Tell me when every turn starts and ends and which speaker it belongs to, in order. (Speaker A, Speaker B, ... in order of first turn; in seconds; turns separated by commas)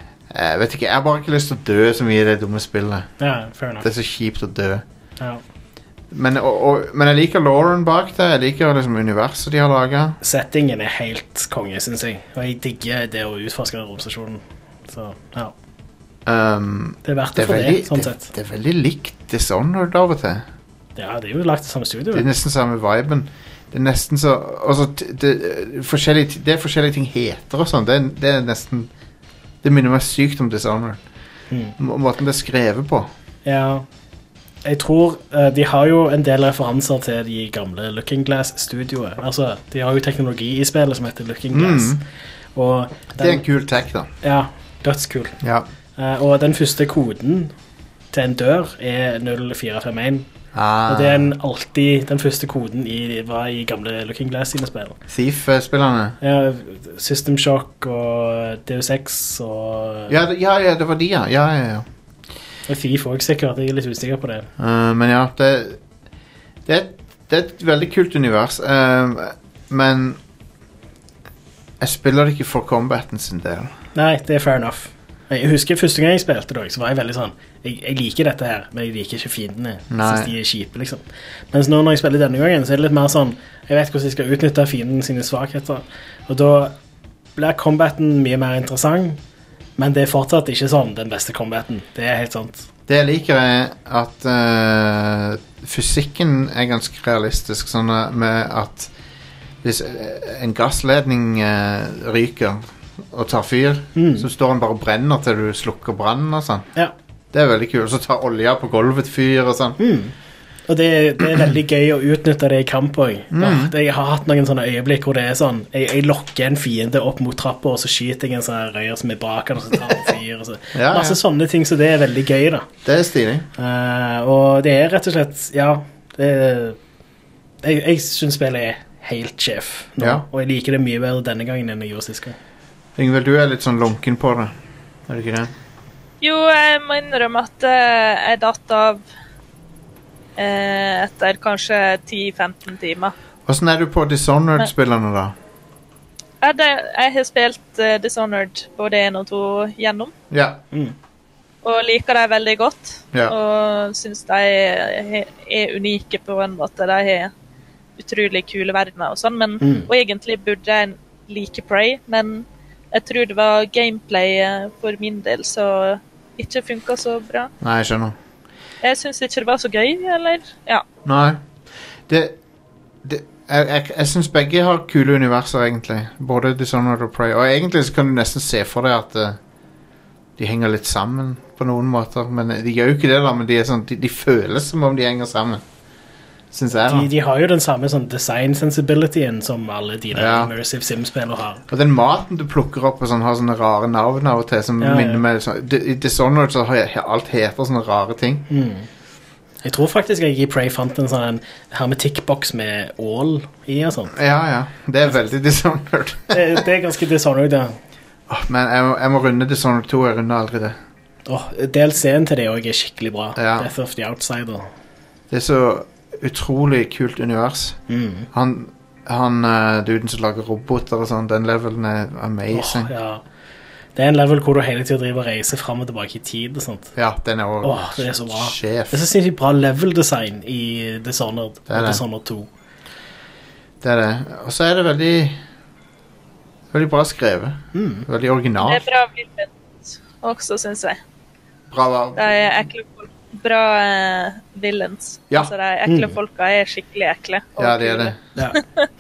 Speaker A: 0.3-3.1, Speaker B: 3.2-3.9, Speaker A: 3.8-4.8, Speaker A: 6.1-10.2, Speaker B: 10.2-15.5, Speaker A: 16.2-20.4, Speaker B: 17.0-18.3, Speaker B: 20.9-22.3, Speaker A: 22.1-28.9, Speaker A: 29.6-31.0, Speaker A: 31.8-33.1, Speaker B: 33.4-33.8, Speaker B: 34.6-42.0, Speaker A: 41.5-42.0, Speaker B: 42.5-43.4, Speaker A: 43.2-44.1, Speaker B: 44.2-45.4, Speaker A: 45.4-45.7, Speaker B: 46.0-47.5, Speaker B: 48.1-50.3, Speaker A: 50.5-51.3, Speaker B: 50.9-55.0, Speaker A: 55.1-56.2, Speaker B: 56.2-60.1, Speaker A: 60.1-61.9, Speaker B: 62.7-64.5, Speaker A: 64.6-65.8, Speaker A: 66.7-70.2, Speaker A: 71.8-73.7, Speaker B: 73.9-86.7, Speaker A: 79.9-80.3, Speaker B: 87.3-89.2, Speaker B: 89.8-92.7, Speaker A: 92.9-98.9, Speaker A: 99.6-106.7, Speaker B: 104.0-104.3, Speaker A: 107.3-109.8, Speaker B: 109.8-110.1, Speaker B: 110.7-122.7, Speaker A: 113.3-113.7, Speaker A: 120.7-121.2, Speaker A: 122.8-123.5, Speaker B: 123.6-126.8, Speaker B: 127.6-132.3, Speaker A: 130.0-130.2, Speaker A: 133.0-134.5, Speaker A: 135.1-135.5, Speaker C: 136.2-139.0, Speaker C: 140.4-143.1, Speaker A: 143.4-145.3, Speaker C: 146.4-150.1, Speaker A: 150.3-150.6, Speaker C: 151.6-157.3, Speaker C: 158.0-167.5, Speaker B: 159.6-159.9, Speaker A: 167.6-168.2, Speaker C: 168.8-170.8, Speaker A: 171.0-171.4, Speaker A: 172.1-172.4, Speaker A: 173.0-179.4, Speaker A: 180.4-185.6, Speaker A: 186.5-187.1, Speaker B: 186.9-191.6, Speaker A: 190.1-190.5, Speaker A: 191.7-198.5, Speaker B: 194.8-195.2, Speaker B: 198.5-198.9, Speaker B: 199.6-204.1, Speaker A: 204.1-206.6, Speaker B: 206.3-207.8, Speaker A: 208.3-210.8, Speaker B: 211.2-214.7, Speaker A: 213.3-213.7, Speaker A: 215.3-217.8, Speaker B: 217.9-218.3, Speaker A: 218.3-222.9, Speaker B: 222.5-223.2, Speaker B: 223.9-226.9, Speaker A: 226.9-229.0, Speaker B: 227.6-232.5, Speaker A: 231.7-232.0, Speaker A: 233.8-235.4, Speaker A: 236.7-238.8, Speaker B: 237.7-238.1, Speaker C: 238.6-241.0, Speaker A: 241.7-242.5, Speaker C: 242.2-248.6, Speaker B: 245.8-246.2, Speaker A: 247.6-248.2, Speaker B: 248.3-248.6